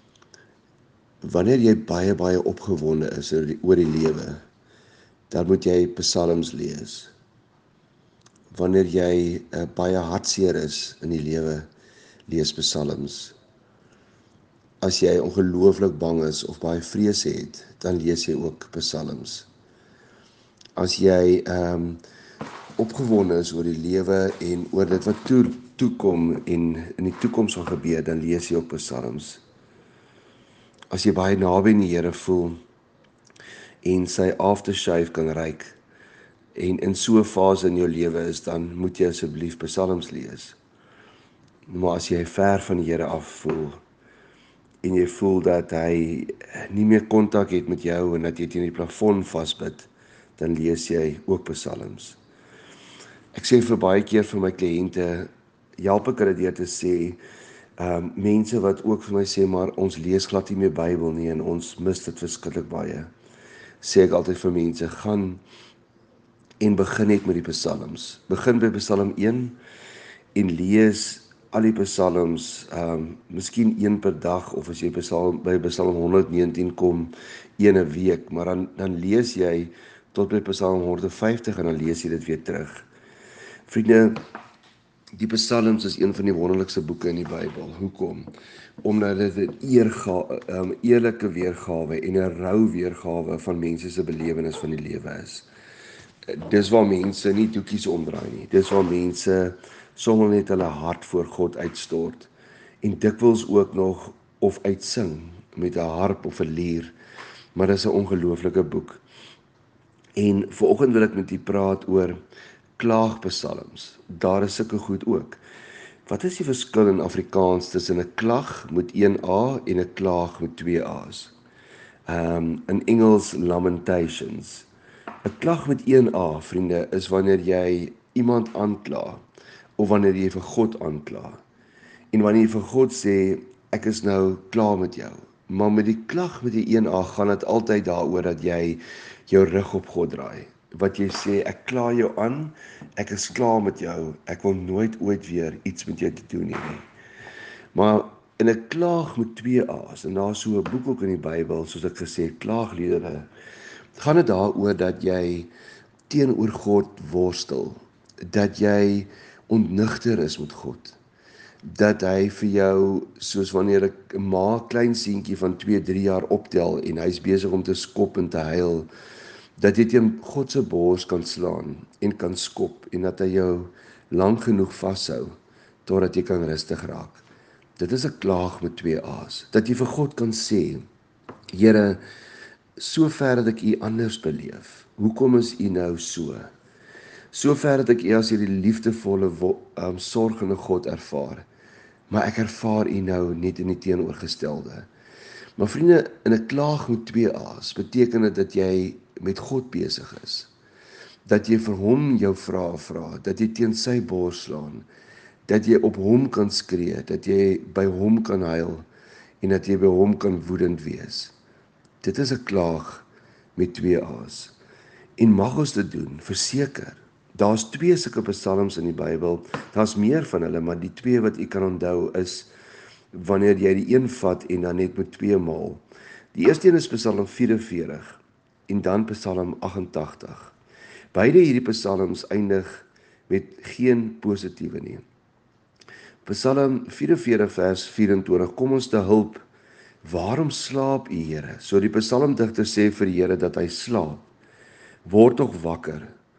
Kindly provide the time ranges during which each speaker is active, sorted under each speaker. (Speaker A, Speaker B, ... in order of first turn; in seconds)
Speaker A: 1.2-4.4, 5.3-7.1, 8.5-11.7, 12.3-13.3, 14.8-19.5, 20.8-22.0, 22.8-29.4, 30.9-32.6, 33.8-35.8, 36.5-40.5, 41.7-43.8, 44.8-52.2, 53.3-57.2, 57.8-63.1, 63.8-65.4, 66.6-69.5, 70.3-82.9, 83.7-84.2, 85.1-88.3, 88.8-95.5, 96.3-102.3, 102.8-106.9, 107.5-109.0, 110.2-112.2, 112.8-115.4, 116.1-121.3, 122.1-124.7, 125.2-129.2, 129.8-131.4, 132.1-146.8, 147.7-153.3, 154.0-155.5, 156.1-161.0, 161.6-168.9, 169.6-175.3, 175.8-177.2, 177.8-180.8, 181.5-182.0, 182.8-186.5, 187.3-191.4, 192.1-194.9, 195.6-200.5, 201.2-204.8, 205.5-208.8, 209.4-211.3, 212.0-214.5, 215.2-222.5, 223.1-225.8, 226.3-230.5, 231.1-235.0, 236.2-239.4, 240.0-244.3, 245.0-246.1